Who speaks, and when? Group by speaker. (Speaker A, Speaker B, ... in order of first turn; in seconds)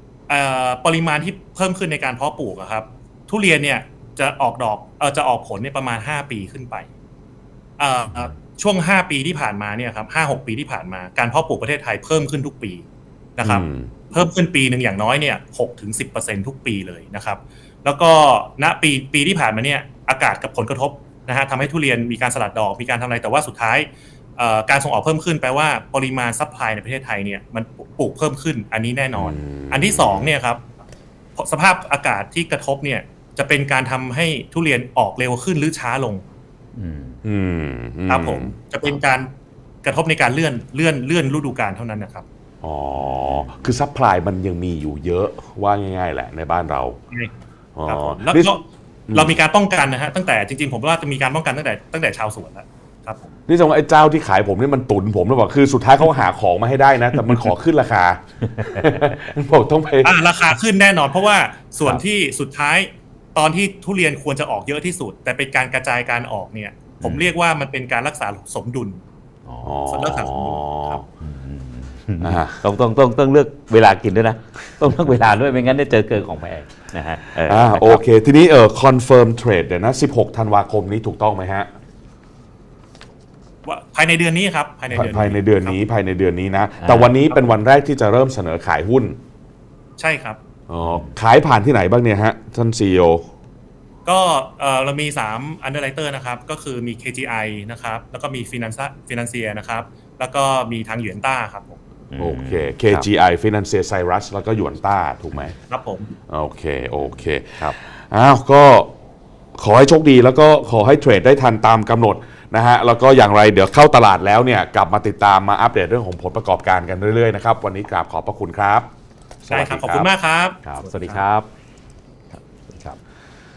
Speaker A: 0.3-6.9, 7.8-12.8, 13.4-30.6, 31.4-36.2, 38.1-39.3, 39.8-42.2, 47.9-48.6, 49.1-53.3, 60.0-69.0, 69.9-71.0, 83.7-85.8, 90.0-90.4, 94.0-101.8, 105.7-106.1, 119.5-121.2
Speaker B: 13.4-13.9, 29.1-30.3, 37.2-38.5, 42.6-47.0, 47.8-48.5, 49.1-49.4, 53.5-60.1, 69.6-71.0, 72.2-72.6, 77.3-81.7, 84.9-89.2, 90.7-93.3, 102.2-105.5, 106.3-108.9, 109.6-118.9, 119.5-120.1
Speaker C: 36.8-37.2, 58.6-59.2, 67.0-67.3, 69.5-69.8, 71.2-78.0, 86.8-87.2, 102.1-103.1, 120.6-121.5, 122.3-123.0